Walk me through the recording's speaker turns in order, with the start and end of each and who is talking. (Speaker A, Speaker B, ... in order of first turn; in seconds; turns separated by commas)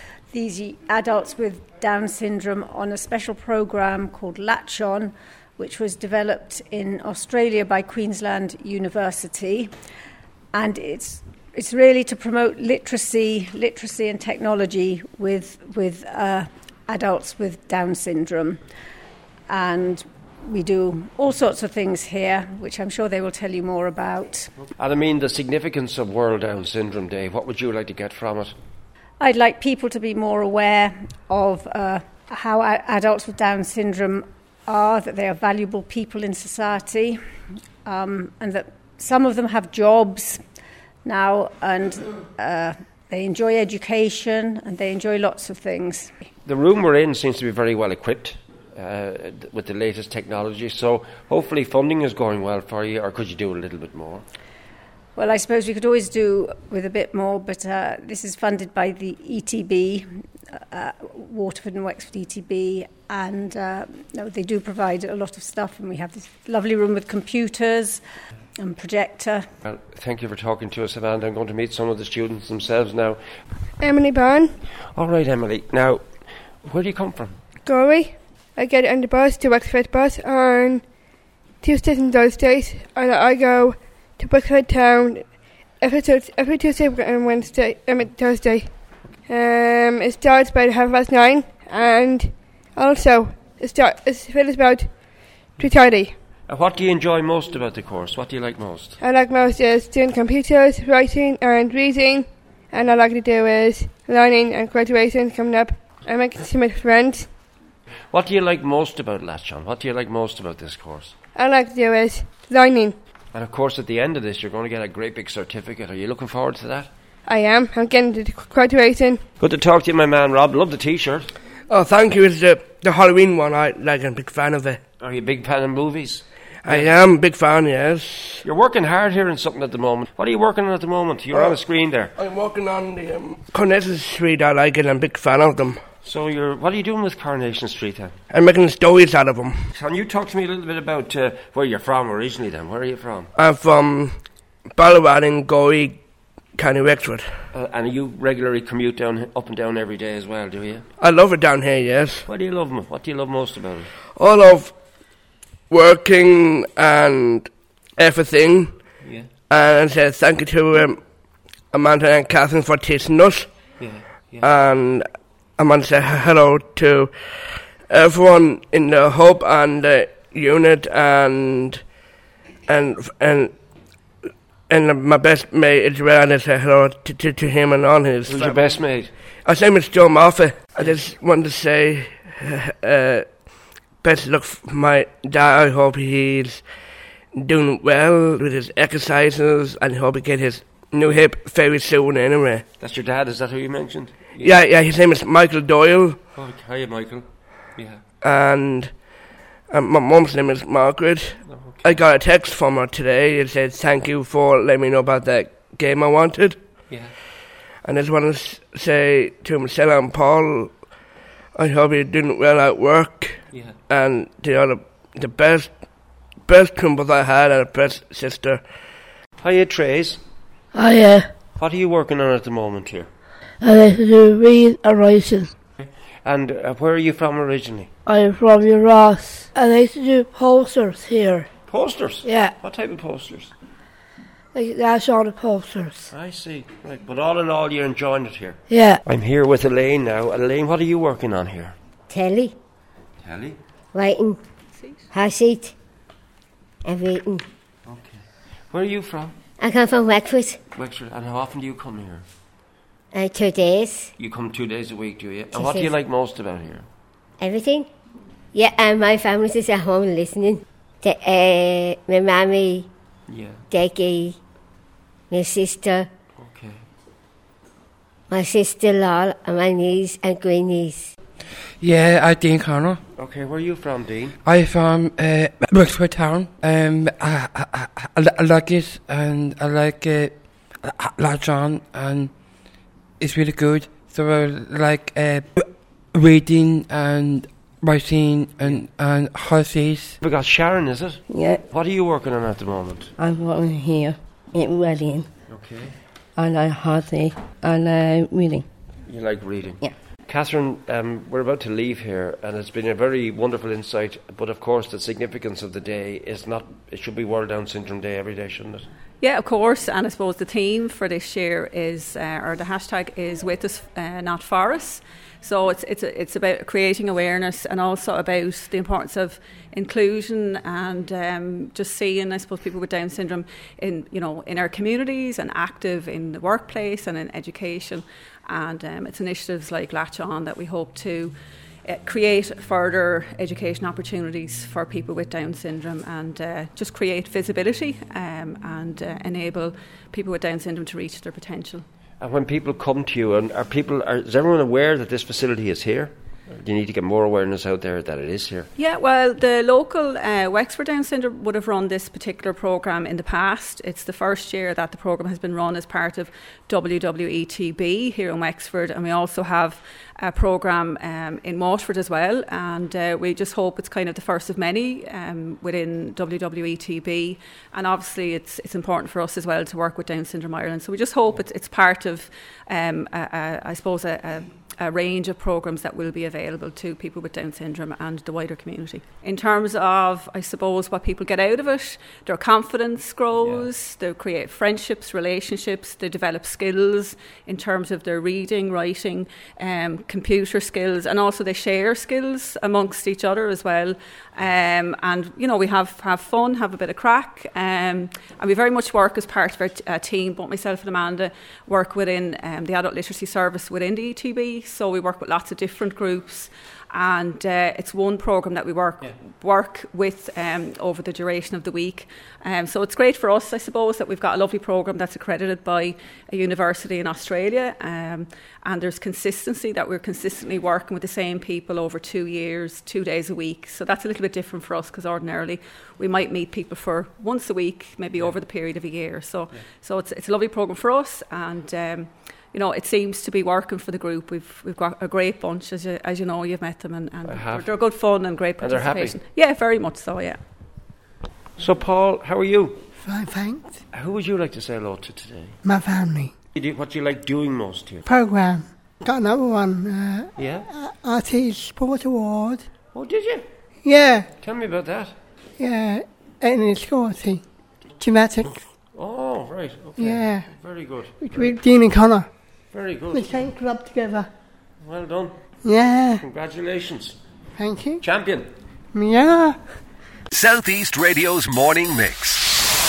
Speaker A: 0.3-9.7, Speaker A: 10.5-18.6, Speaker A: 19.5-24.5, Speaker B: 24.8-28.5, Speaker A: 29.2-37.2, Speaker A: 37.8-40.4, Speaker A: 41.0-46.1, Speaker B: 46.5-54.2, Speaker A: 55.1-68.0, Speaker A: 68.6-69.5, Speaker B: 69.6-73.2, Speaker C: 73.8-74.6, Speaker B: 75.0-77.3, Speaker C: 77.6-96.2, Speaker B: 96.5-99.0, Speaker C: 99.0-107.4, Speaker B: 108.1-111.1, Speaker C: 111.3-113.0, Speaker D: 113.3-115.1, Speaker B: 113.3-116.9, Speaker D: 115.8-116.8, Speaker C: 117.2-119.3, Speaker D: 119.4-119.9, Speaker B: 119.4-121.3, Speaker E: 121.7-124.8, Speaker B: 125.0-126.9, Speaker E: 126.6-128.4, Speaker B: 128.4-132.1, Speaker E: 131.3-131.6, Speaker E: 132.2-135.8, Speaker B: 136.0-138.1, Speaker D: 136.8-137.1, Speaker E: 138.3-139.5, Speaker B: 139.7-143.3, Speaker E: 143.3-144.2, Speaker E: 144.8-146.0, Speaker E: 146.5-147.3, Speaker B: 147.5-150.8, Speaker E: 151.0-152.2, Speaker B: 152.3-153.9, Speaker E: 154.1-154.7, Speaker E: 155.7-161.0, Speaker E: 161.6-163.5, Speaker B: 163.8-164.4, Speaker E: 164.3-165.1, Speaker E: 165.6-171.8, Speaker E: 172.7-173.5, Speaker E: 174.7-178.7, Speaker B: 178.3-179.1, Speaker E: 179.4-183.2, Speaker E: 184.0-186.6, Speaker E: 187.3-192.6, Speaker B: 192.8-194.6, Speaker E: 194.4-196.2, Speaker B: 196.3-197.2, Speaker E: 198.2-199.1, Speaker E: 199.7-206.6, Speaker B: 201.4-202.0, Speaker E: 207.8-210.7, Speaker E: 211.5-215.7, Speaker E: 216.4-218.6, Speaker B: 219.4-220.2, Speaker F: 220.7-221.3, Speaker B: 221.6-223.1, Speaker F: 223.6-225.5, Speaker B: 225.8-227.9, Speaker F: 228.1-231.5, Speaker B: 231.7-233.5, Speaker F: 232.3-232.5, Speaker F: 234.5-236.1, Speaker B: 236.1-241.7, Speaker F: 238.7-239.0, Speaker G: 242.1-242.5, Speaker B: 243.2-243.6, Speaker G: 243.9-244.4, Speaker H: 244.8-245.0, Speaker G: 245.1-245.7, Speaker G: 246.8-247.4, Speaker B: 247.9-249.4, Speaker G: 249.6-250.6, Speaker B: 250.7-252.2, Speaker G: 253.1-254.1, Speaker B: 254.2-256.9, Speaker G: 255.5-255.9, Speaker G: 257.4-257.9, Speaker G: 258.5-262.9, Speaker B: 263.3-263.6, Speaker G: 263.7-264.4, Speaker G: 265.3-266.1, Speaker B: 266.4-266.8, Speaker G: 268.3-271.1, Speaker I: 271.8-273.0, Speaker B: 273.2-274.3, Speaker I: 274.4-290.1, Speaker B: 290.2-291.2, Speaker J: 291.3-291.6, Speaker B: 291.7-293.1, Speaker J: 293.2-295.3, Speaker B: 295.5-295.9, Speaker J: 296.4-298.6, Speaker B: 299.1-308.9, Speaker H: 309.2-331.3, Speaker H: 331.9-341.8, Speaker B: 342.2-348.6, Speaker H: 348.8-440.4, Speaker B: 437.3-437.6, Speaker B: 438.6-439.2, Speaker B: 441.6-442.8, Speaker K: 443.0-443.8, Speaker B: 443.9-445.5, Speaker K: 445.6-446.3, Speaker B: 446.5-448.0, Speaker K: 448.1-452.6, Speaker B: 452.9-453.4, Speaker K: 453.8-454.3, Speaker B: 454.4-455.1, Speaker K: 455.6-457.4, Speaker K: 458.0-458.6, Speaker B: 458.9-461.5, Speaker K: 460.0-460.6, Speaker K: 461.2-462.3, Speaker B: 462.7-463.4, Speaker K: 463.1-464.3, Speaker B: 464.8-465.4, Speaker K: 465.6-466.2, Speaker B: 466.2-467.1, Speaker K: 467.6-468.0, Speaker B: 468.0-468.5, Speaker K: 468.9-469.6, Speaker D: 470.3-472.6